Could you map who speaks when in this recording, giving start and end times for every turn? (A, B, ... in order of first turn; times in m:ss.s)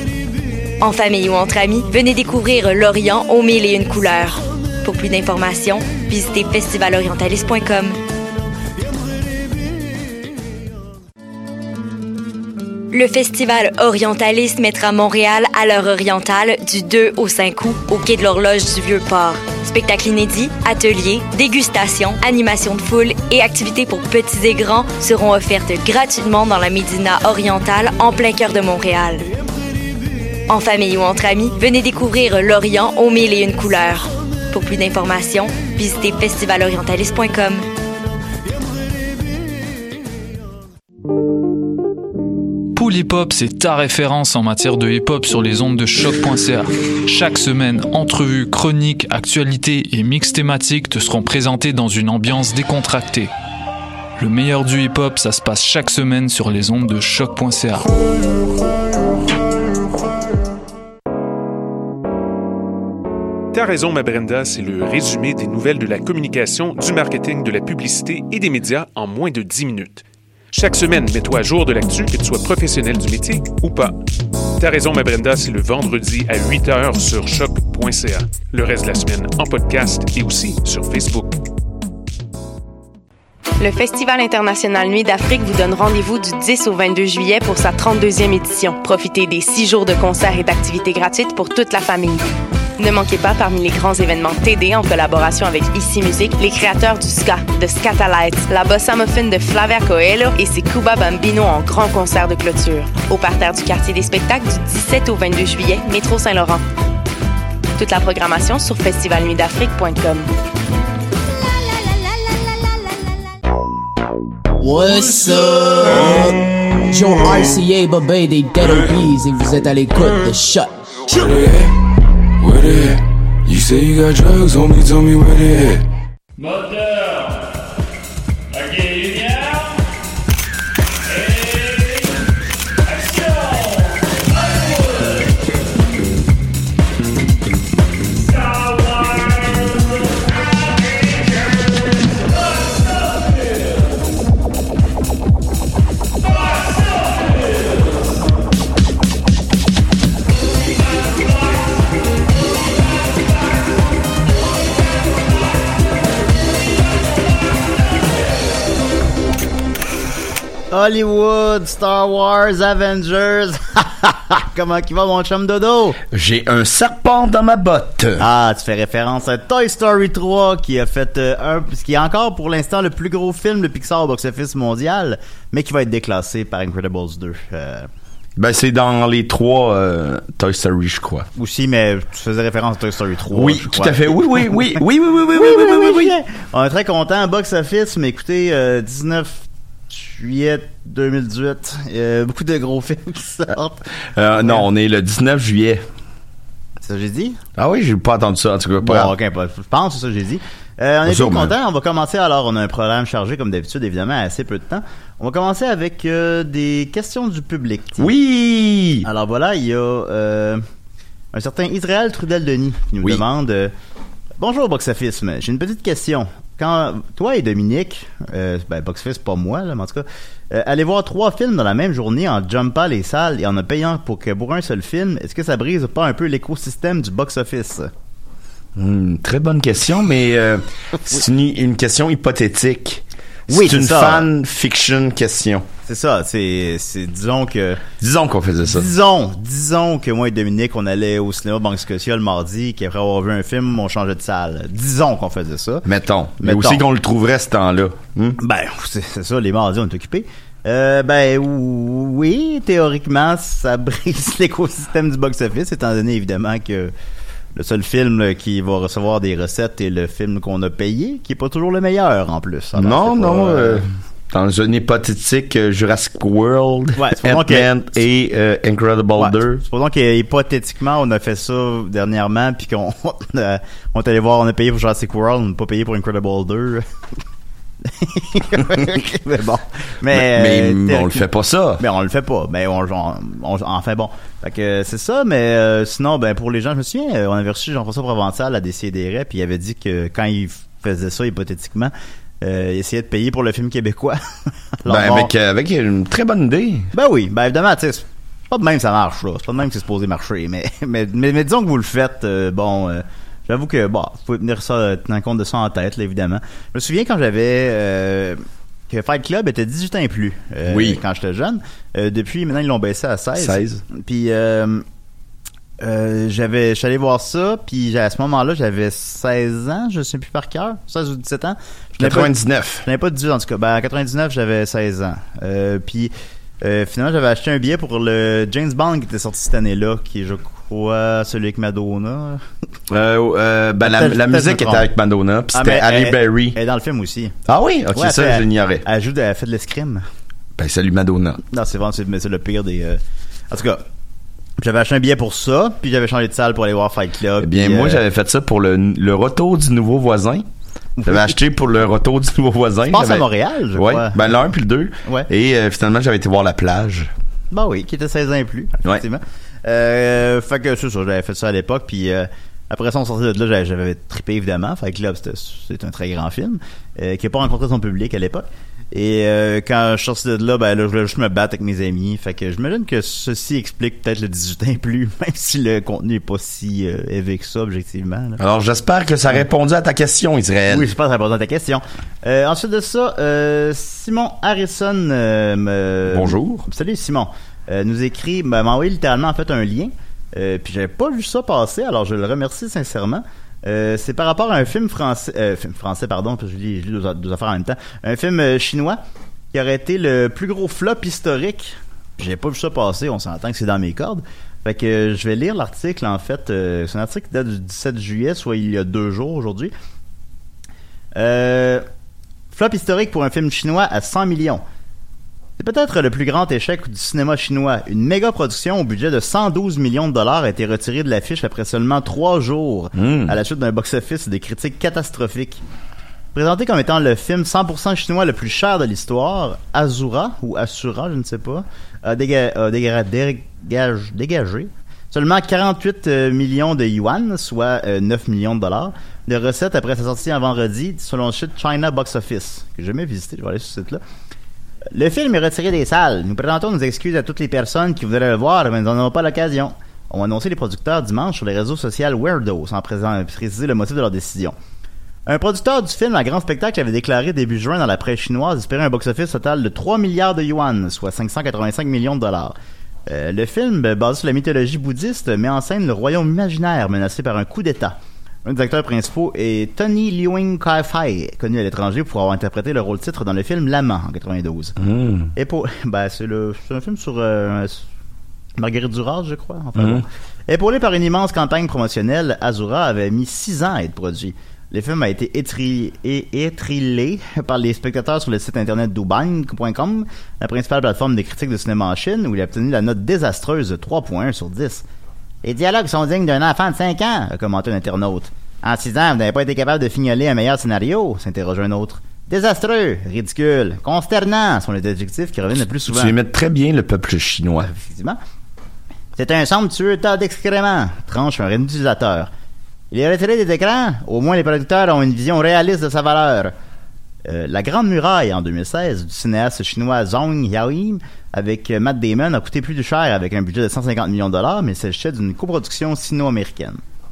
0:00.8-0:08.0 A
0:12.9-0:29.3 A
0:30.5-0:37.6 A
0:42.8-0:53.3 B
0:54.2-0:57.9 B
1:03.5-1:14.0 C
1:14.6-1:21.4 C
1:23.6-1:32.3 D
1:32.8-1:46.6 D
1:47.8-1:50.3 D
1:54.6-2:00.7 E
2:01.1-2:01.7 F
2:02.4-2:05.8 F
2:40.7-2:46.0 G
2:46.1-2:48.3 H
2:48.2-2:57.9 G
2:58.4-3:01.3 H
3:01.4-3:13.8 G
3:03.3-3:06.2 H
3:14.2-3:15.8 H
3:14.4-3:14.7 G
3:16.8-3:17.4 G
3:17.6-3:19.1 H
3:18.8-3:28.1 G
3:21.1-3:21.5 H
3:28.0-3:29.1 H
3:29.0-3:30.6 G
3:31.3-3:33.7 G
3:34.4-3:47.9 G
3:48.8-3:55.7 H
3:53.5-3:54.3 G
3:55.9-3:57.8 G
3:58.0-3:58.9 H
3:58.6-4:05.9 G
4:05.8-4:08.4 H
4:06.4-4:06.8 G
4:08.4-4:16.9 G
4:17.6-4:23.9 G
4:22.8-4:29.6 H
4:27.0-4:27.7 G
4:29.2-4:36.8 G
4:37.8-4:41.3 G
4:40.1-4:41.8 H
4:41.8-4:54.2 G
4:54.8-4:55.3 G
4:54.9-4:56.9 H
4:56.9-5:14.8 G
5:10.7-5:11.0 H
5:13.4-5:13.8 H
5:15.8-5:22.3 G
5:22.0-5:22.9 H
5:22.8-5:32.4 G
5:32.9-5:36.6 H
5:33.8-5:34.9 G
5:35.5-5:37.3 G
5:37.4-5:38.8 H
5:37.9-5:40.0 G
5:40.6-5:41.4 H
5:41.5-5:43.0 G
5:43.5-5:43.8 G
5:44.6-5:48.0 G
5:47.4-5:50.5 H
5:51.0-5:51.4 G
5:51.1-5:57.1 H
5:52.9-5:54.2 G
5:57.5-6:18.4 G
6:18.4-6:20.9 H
6:20.7-6:39.0 G
6:26.1-6:26.7 H
6:39.5-6:49.7 G
6:51.2-6:51.8 G
6:52.5-6:54.6 G
6:55.6-7:05.6 G
7:03.0-7:03.4 H
7:06.4-7:24.0 G
7:25.0-7:34.6 G
7:35.3-7:42.6 G
7:43.1-7:54.8 G
7:54.8-7:55.3 H
7:55.3-7:57.8 G
7:58.6-8:14.8 G
7:59.8-8:00.0 H
8:15.4-8:26.2 G
8:25.9-8:27.7 H
8:27.6-8:28.2 G
8:29.2-8:32.3 G
8:32.9-8:36.5 G
8:37.2-8:46.8 G